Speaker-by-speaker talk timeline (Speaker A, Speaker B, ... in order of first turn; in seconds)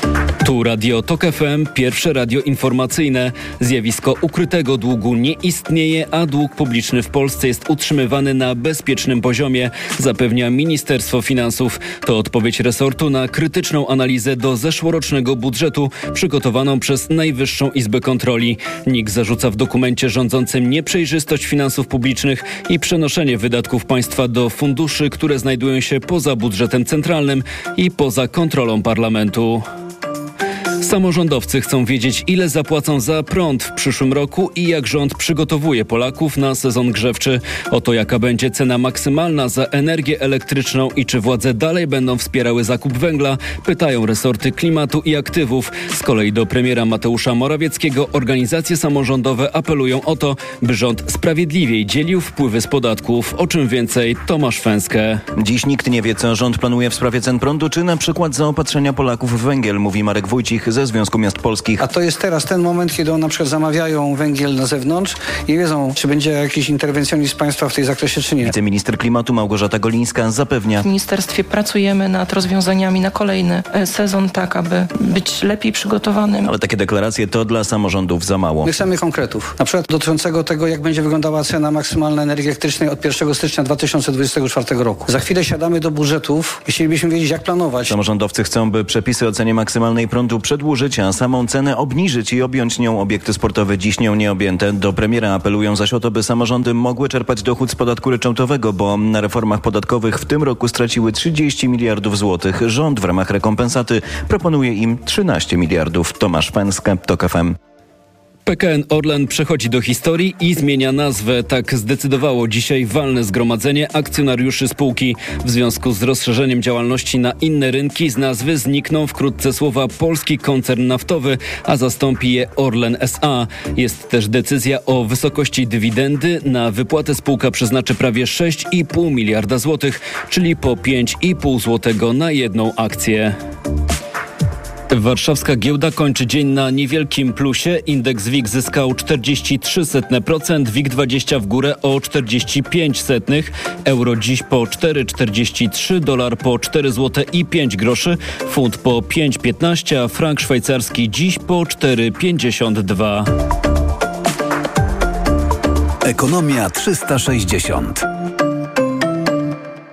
Speaker A: 0.4-29.6, 30.8-55.2, 108.5-133.3, 134.9-153.3
Speaker B: 55.4-61.9, 68.4-70.8, 76.5-78.8, 87.9-107.6
Speaker C: 61.8-68.5, 78.7-87.9
Speaker D: 70.8-76.5
Speaker E: 156.0-158.1